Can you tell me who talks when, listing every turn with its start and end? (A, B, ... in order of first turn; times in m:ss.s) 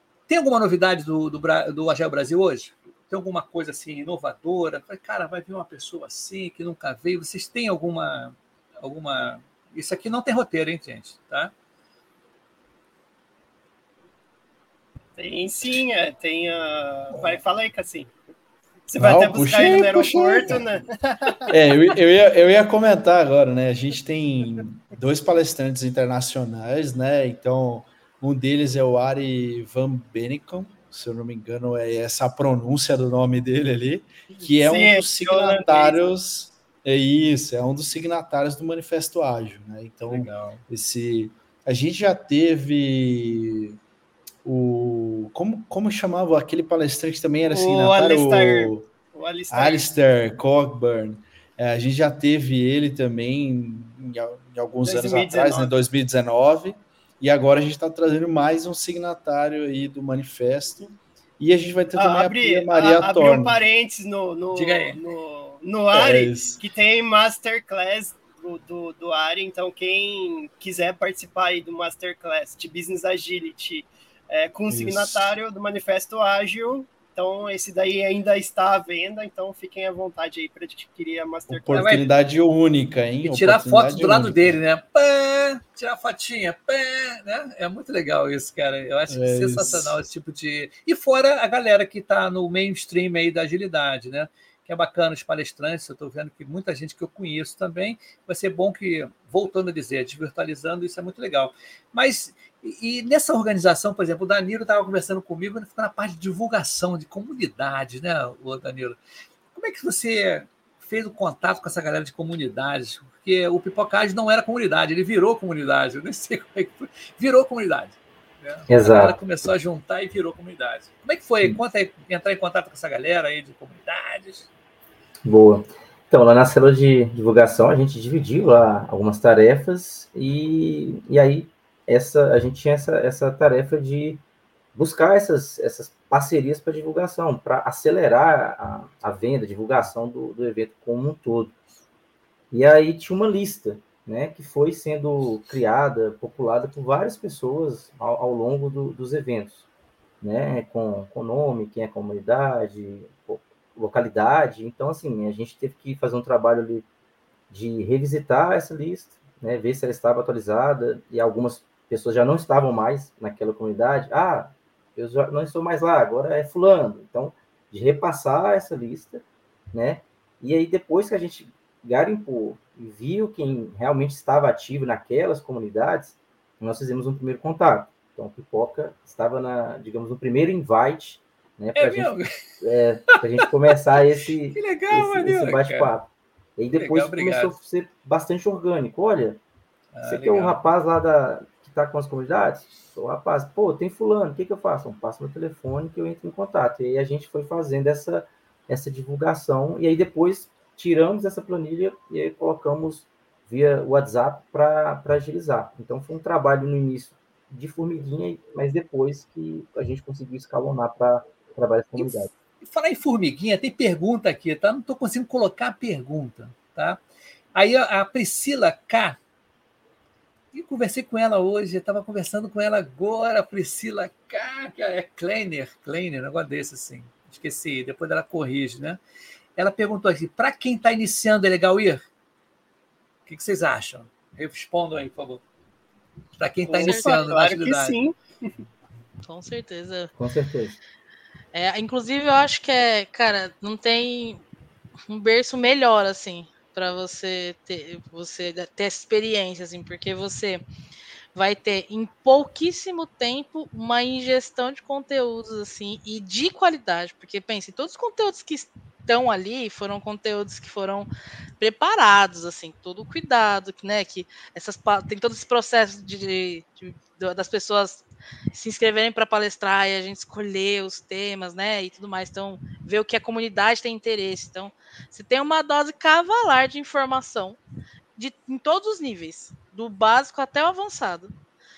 0:00.3-0:11.5 A
0:15.2-0:18.1 B
0:18.9-0:21.6 B
0:19.0-0:20.6 C
0:21.5-0:43.8 C
0:34.4-0:36.0 B
0:40.1-0:40.6 A
0:44.4-0:48.9 C
0:47.5-0:49.9 B
0:49.5-1:03.6 C
0:54.8-0:55.7 B
1:02.0-1:21.8 B
1:04.5-1:05.0 A
1:05.9-1:06.6 C
1:14.7-1:15.3 C
1:21.5-1:24.6 C
1:21.7-1:22.1 A
1:23.2-1:49.0 A
1:29.1-1:30.0 C
1:49.5-2:04.5 A
1:58.7-1:59.2 D
2:05.2-2:14.2 D
2:14.7-2:21.6 D
2:22.5-2:29.7 D
2:30.2-2:36.9 D
2:37.5-3:09.4 D
3:01.8-3:02.3 A
3:04.5-3:05.9 A
3:06.7-3:07.5 A
3:09.9-3:10.6 A
3:10.0-3:32.3 D
3:32.0-3:37.0 A
3:37.6-3:39.2 A
3:40.5-3:49.0 A
3:49.6-3:52.0 A
3:53.3-3:55.4 A
3:56.4-3:58.0 A
3:56.7-3:58.2 B
3:56.8-3:57.3 E
3:59.3-4:00.1 E
4:00.2-4:00.8 D
4:01.5-4:04.4 E
4:05.1-4:10.6 E
4:11.4-4:37.6 E
4:38.2-4:41.3 E